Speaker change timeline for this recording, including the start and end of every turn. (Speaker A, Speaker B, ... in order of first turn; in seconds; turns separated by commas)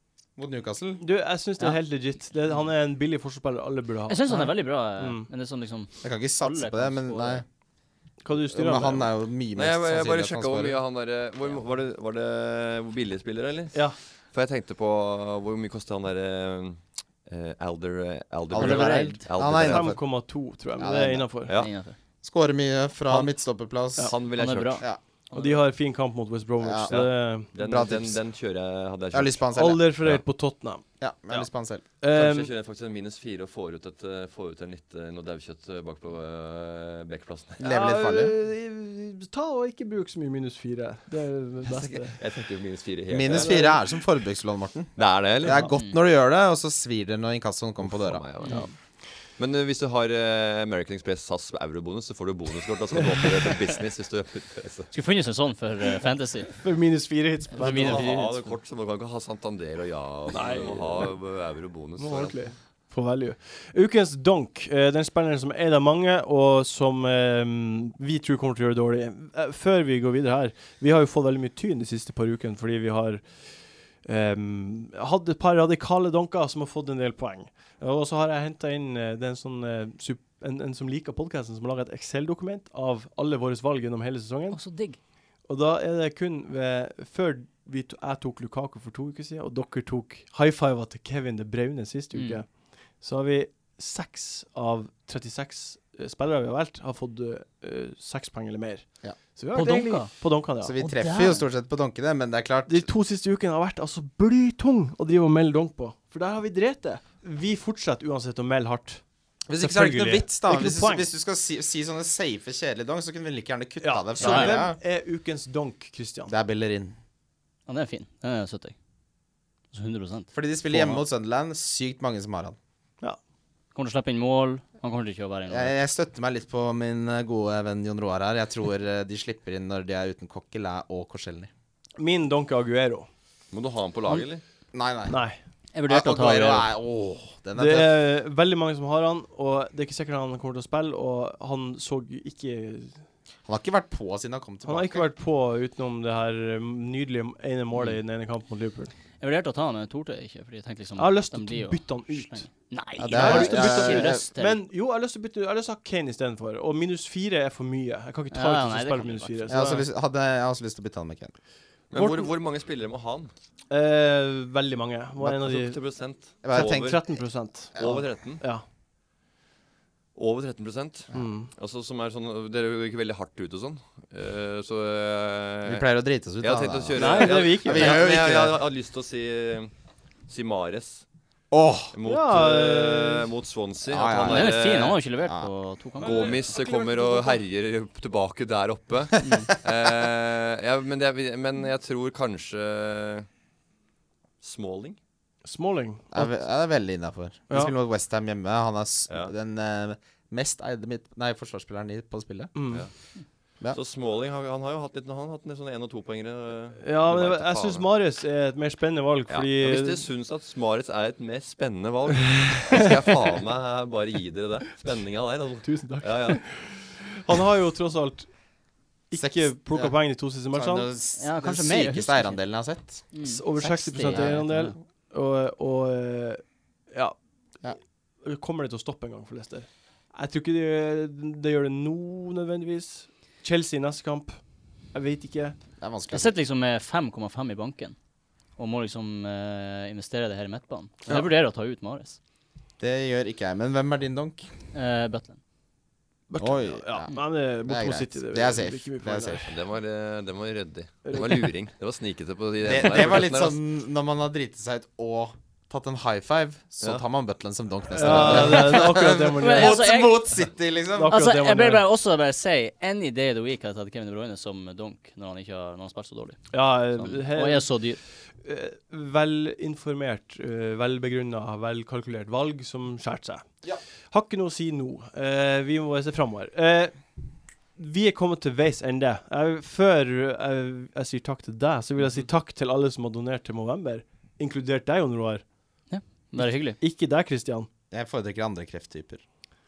Speaker A: 0.4-1.0, Speaker B: 1.0-5.3, Speaker C: 4.1-7.4, Speaker A: 6.0-7.5, Speaker B: 8.2-9.1, Speaker A: 8.5-10.8, Speaker D: 9.6-19.9, Speaker A: 18.5-20.0, Speaker C: 18.6-19.2, Speaker B: 19.6-21.5, Speaker A: 20.8-21.3, Speaker C: 21.6-22.0, Speaker A: 22.2-24.1, Speaker D: 24.0-24.8, Speaker C: 24.4-25.6, Speaker B: 25.3-27.5, Speaker A: 26.6-27.0, Speaker D: 26.9-29.4, Speaker A: 27.5-28.2, Speaker A: 29.1-29.8, Speaker B: 29.6-31.5, Speaker A: 31.0-31.8, Speaker B: 32.0-32.5, Speaker D: 32.1-37.6, Speaker A: 37.6-38.3, Speaker B: 37.6-42.2, Speaker D: 41.7-43.7, Speaker A: 43.1-48.2, Speaker B: 43.3-43.8, Speaker D: 45.0-45.6, Speaker B: 45.5-45.7, Speaker C: 45.7-46.0, Speaker D: 47.8-48.7, Speaker B: 48.5-48.7, Speaker D: 49.4-54.9, Speaker C: 54.9-56.5, Speaker B: 56.6-58.1, Speaker C: 57.5-58.5, Speaker D: 57.5-62.4, Speaker B: 60.3-61.2, Speaker B: 62.0-84.6, Speaker C: 84.5-85.0, Speaker B: 85.5-100.8, Speaker C: 92.1-92.4, Speaker C: 99.5-100.1, Speaker A: 100.6-102.9, Speaker C: 100.8-101.4, Speaker B: 102.7-109.0, Speaker A: 109.5-114.8, Speaker B: 109.6-111.1, Speaker B: 113.8-116.3, Speaker C: 114.2-114.6, Speaker A: 116.3-117.0, Speaker C: 117.7-118.8, Speaker C: 119.7-120.3, Speaker A: 120.3-122.6, Speaker B: 120.7-121.0, Speaker C: 123.7-125.8, Speaker A: 125.5-131.5, Speaker B: 132.0-133.1, Speaker D: 133.5-134.4, Speaker A: 134.7-135.2, Speaker B: 135.1-135.4, Speaker C: 135.7-136.7, Speaker A: 135.9-138.0, Speaker B: 137.6-143.0, Speaker A: 143.5-145.1, Speaker B: 144.6-148.9, Speaker C: 147.7-148.0, Speaker C: 149.2-154.6, Speaker B: 151.0-152.5, Speaker A: 153.0-154.3, Speaker B: 153.1-159.8, Speaker C: 158.3-159.5, Speaker A: 159.5-161.3, Speaker D: 161.9-163.3, Speaker B: 161.9-162.3, Speaker B: 163.7-165.8, Speaker D: 165.2-167.0, Speaker A: 166.4-167.2, Speaker B: 166.5-168.6, Speaker A: 167.8-168.0, Speaker D: 167.8-168.4, Speaker D: 170.2-175.9, Speaker B: 171.1-171.5, Speaker A: 175.7-178.6, Speaker D: 176.4-179.7, Speaker B: 177.0-178.1, Speaker D: 180.3-181.0, Speaker A: 181.5-181.9, Speaker D: 181.9-185.0, Speaker B: 182.1-183.3, Speaker A: 183.8-185.5, Speaker C: 184.2-186.3, Speaker D: 186.0-193.3, Speaker B: 186.1-187.4, Speaker C: 189.2-189.5, Speaker D: 194.4-195.0, Speaker B: 195.4-196.3, Speaker A: 196.1-202.7, Speaker B: 202.6-202.8, Speaker D: 203.7-207.9, Speaker B: 206.8-210.0, Speaker D: 209.3-216.5, Speaker B: 215.6-218.3, Speaker B: 219.1-220.9, Speaker A: 219.1-219.9, Speaker A: 220.5-223.1, Speaker C: 221.2-222.4, Speaker C: 223.1-224.8, Speaker B: 223.2-227.2, Speaker A: 224.0-224.4, Speaker B: 228.2-235.6, Speaker A: 235.8-236.3, Speaker C: 236.1-238.0, Speaker C: 238.6-242.2, Speaker A: 242.8-244.5, Speaker C: 244.7-245.4, Speaker B: 246.3-249.5, Speaker A: 246.4-249.5, Speaker D: 249.5-253.6, Speaker B: 251.1-251.4, Speaker A: 252.6-261.2, Speaker B: 257.9-259.8, Speaker C: 259.4-260.4, Speaker B: 260.9-261.8, Speaker C: 261.0-268.0, Speaker B: 266.5-267.8, Speaker B: 268.4-273.5, Speaker B: 274.1-277.0, Speaker B: 277.8-285.5, Speaker C: 285.9-286.8, Speaker B: 286.4-287.7, Speaker A: 287.9-289.2